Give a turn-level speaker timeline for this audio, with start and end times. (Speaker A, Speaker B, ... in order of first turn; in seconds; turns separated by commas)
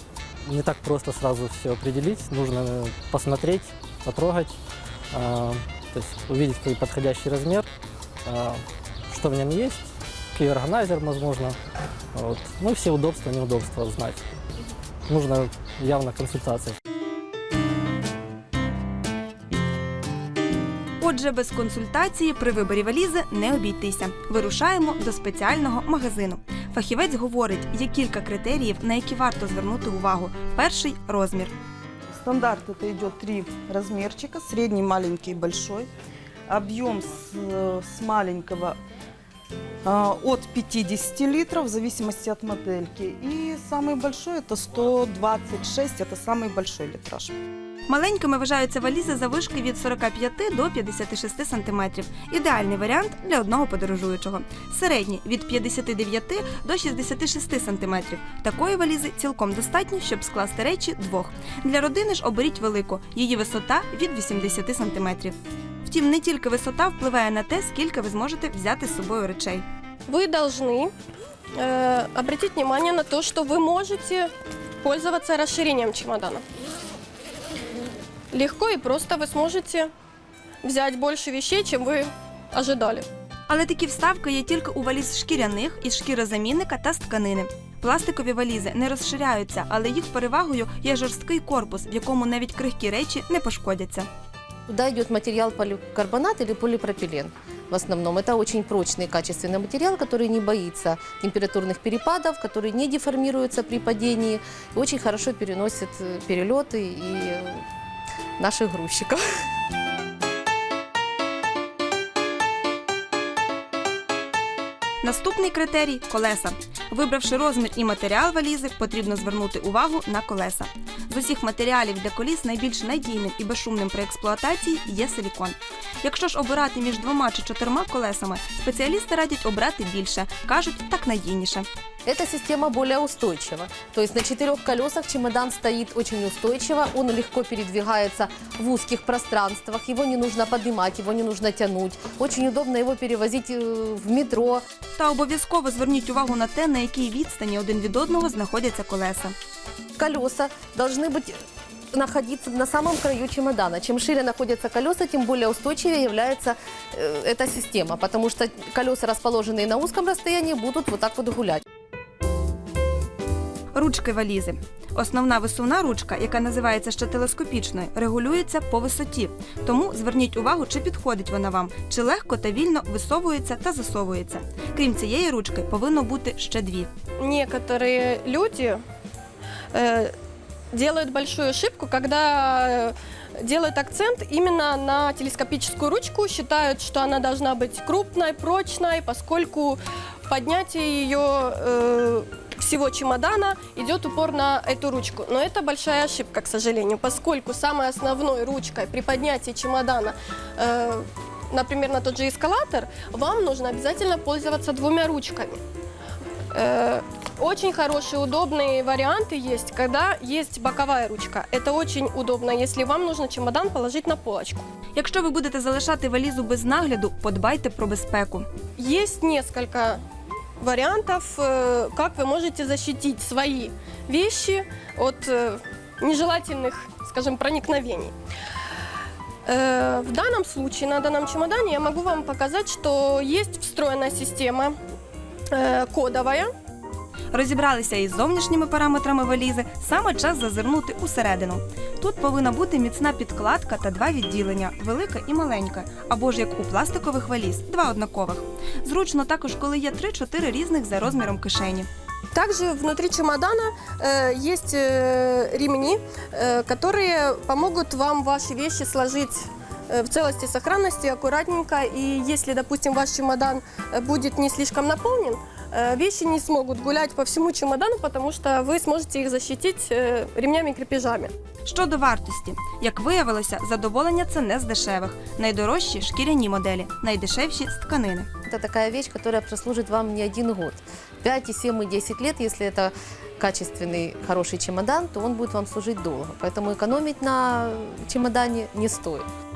Speaker A: 0.5-4.5, Speaker A: 5.1-7.7, Speaker A: 8.3-11.6, Speaker A: 12.1-14.2, Speaker A: 15.1-16.8, Speaker B: 21.0-31.5, Speaker C: 32.1-35.9, Speaker C: 36.5-38.8, Speaker C: 39.8-47.4, Speaker B: 47.9-69.6, Speaker D: 70.1-70.9, Speaker D: 71.6-74.3, Speaker D: 74.8-76.4, Speaker D: 78.3-79.9, Speaker D: 80.6-83.0, Speaker B: 83.5-94.1, Speaker E: 94.7-107.6, Speaker E: 108.4-109.2, Speaker B: 115.0-131.7, Speaker E: 132.1-144.6, Speaker B: 145.0-149.3, Speaker E: 150.0-151.4, Speaker E: 151.9-161.6, Speaker B: 163.7-176.9, Speaker D: 177.2-178.8, Speaker D: 179.7-180.1, Speaker D: 180.7-205.6, Speaker D: 206.5-214.6, Speaker B: 215.0-218.5, Speaker D: 218.8-220.0, Speaker D: 220.6-228.1, Speaker D: 229.5-234.8, Speaker D: 235.5-236.5, Speaker B: 237.3-251.9, Speaker D: 252.3-271.3, Speaker B: 271.6-278.3, Speaker E: 278.5-289.3